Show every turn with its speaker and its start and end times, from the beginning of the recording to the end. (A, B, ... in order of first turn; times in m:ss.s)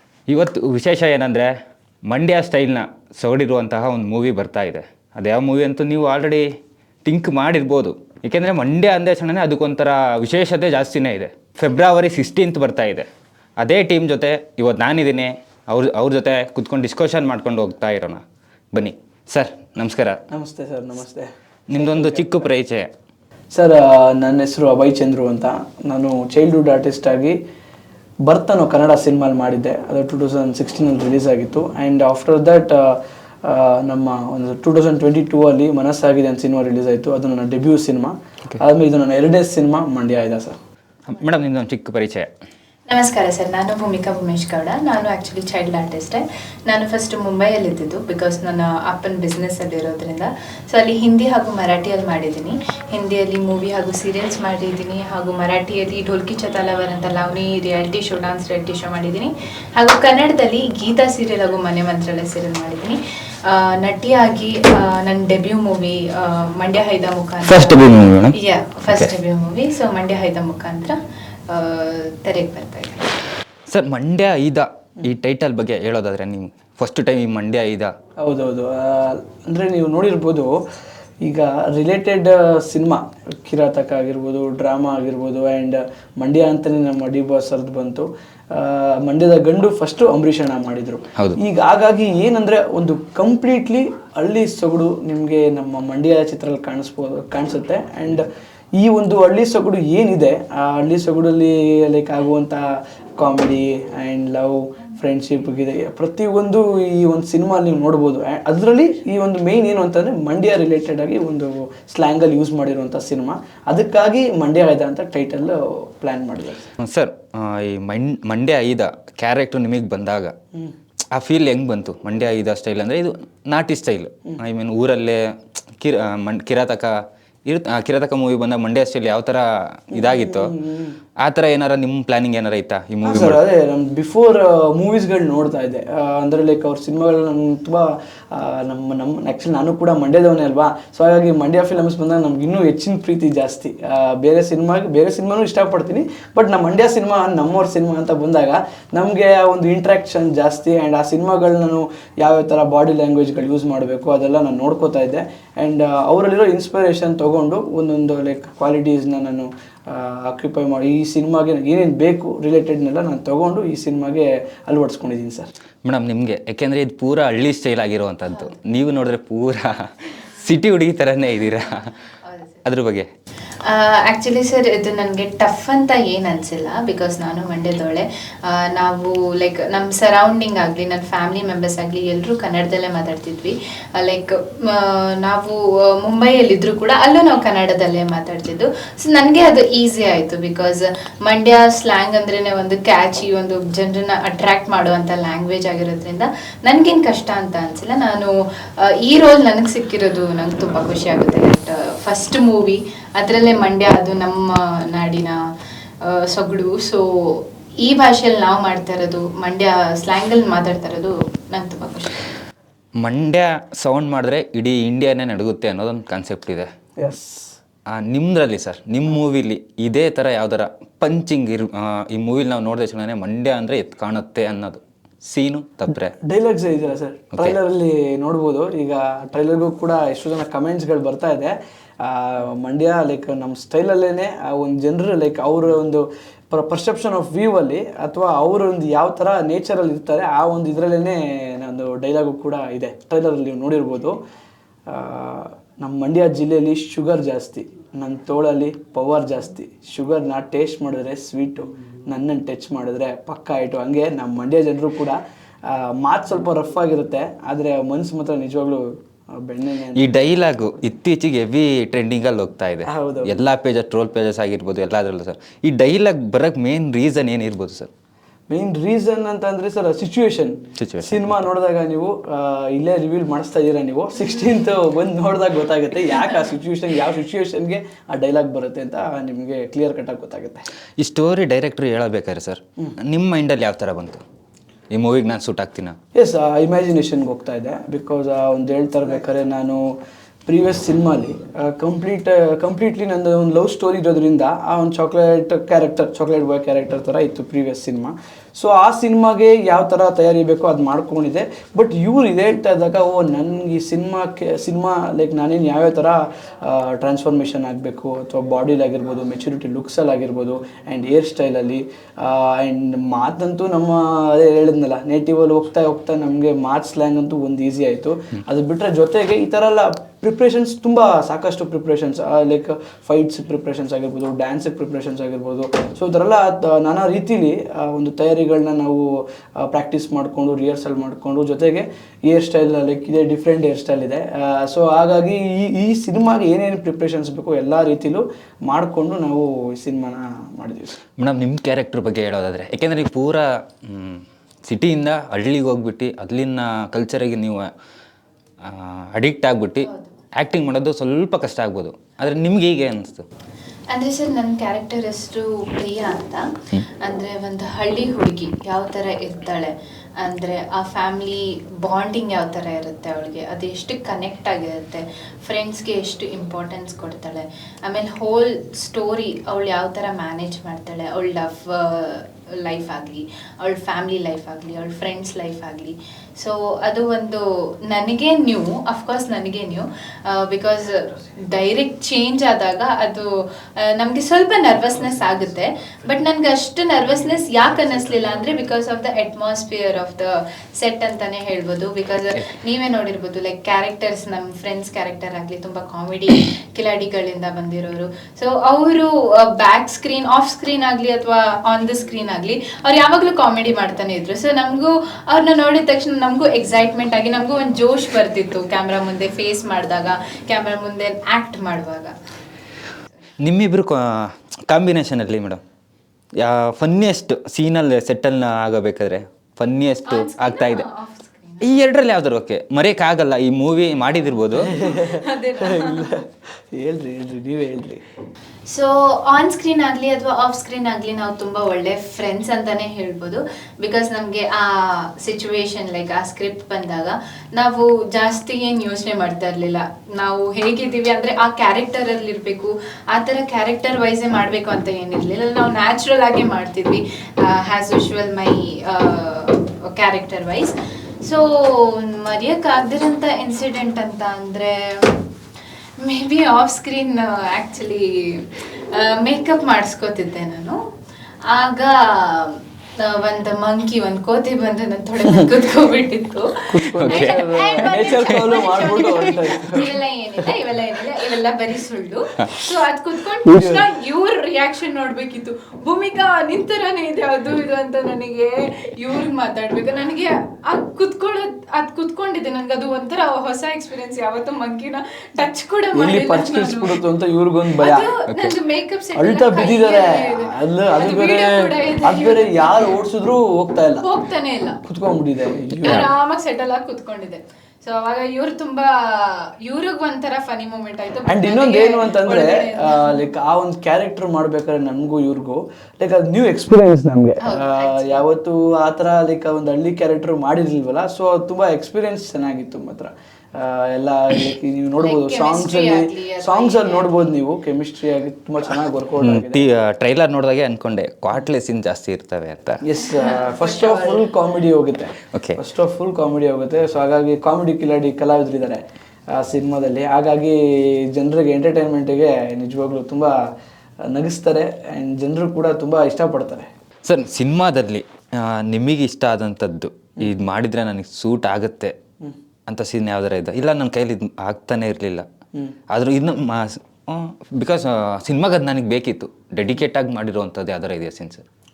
0:00.3-0:01.5 A
0:02.1-0:06.5 A
0:07.0-0:13.1 A
0:13.6-0:18.2 A
0:18.7-0:20.2 A
0:20.3-0:22.5 B
0:21.7-0:22.9 A
0:23.5-0:27.4 B
0:28.2-0:40.6 B
0:41.1-0:42.3 A
0:42.9-1:03.0 C
1:03.5-1:11.0 C
1:07.4-1:08.4 A
1:11.5-1:13.0 C
1:13.7-1:17.9 A
1:18.2-1:20.6 B
1:21.2-1:38.2 B
1:38.8-1:42.7 B
1:43.2-1:56.7 B
1:56.8-2:00.3 A
2:01.1-2:05.2 A
2:05.8-2:06.9 A
2:07.5-2:10.5 A
2:09.9-2:11.0 B
2:11.2-2:13.4 A
2:13.0-2:45.5 B
2:45.8-2:51.9 A
2:52.3-2:52.6 C
2:52.6-2:53.1 A
2:53.6-3:25.4 C
3:26.0-3:32.2 C
3:33.0-3:36.7 A
3:37.0-3:37.6 B
3:37.9-3:46.1 A
3:46.2-4:04.2 B
4:04.9-4:20.1 B
4:19.9-4:27.9 A
4:22.8-4:23.3 B
4:28.5-4:40.6 B
4:30.8-4:31.4 A
4:41.0-4:44.2 A
4:44.9-4:45.9 A
4:46.1-4:49.9 B
4:50.4-5:41.0 B
5:41.2-5:47.7 A
5:48.6-5:53.2 A
5:49.8-5:50.1 C
5:53.9-5:56.4 C
5:57.0-6:52.1 C
6:53.4-6:55.6 A
6:56.4-7:00.8 A
7:00.1-7:01.8 C
7:01.6-7:04.8 A
7:04.6-7:08.0 B
7:04.6-7:06.1 C
7:08.7-7:35.2 C
7:36.0-7:40.8 C
7:41.5-8:07.0 C
7:46.7-7:50.5 B
7:47.0-7:48.5 A
7:53.4-7:53.9 B
8:05.9-8:08.1 B
8:07.8-8:12.9 C
8:08.3-8:08.6 A
8:09.2-8:14.0 B
8:14.0-8:14.8 C
8:14.8-8:16.1 B
8:15.8-8:23.2 C
8:21.3-8:39.6 B
8:27.4-8:28.3 C
8:35.0-8:37.2 C
8:39.2-8:42.8 A
8:42.8-8:53.4 B
8:43.1-8:44.2 C
8:54.1-8:56.7 B
8:57.0-9:01.9 A
9:02.7-9:05.2 A
9:05.9-9:11.4 A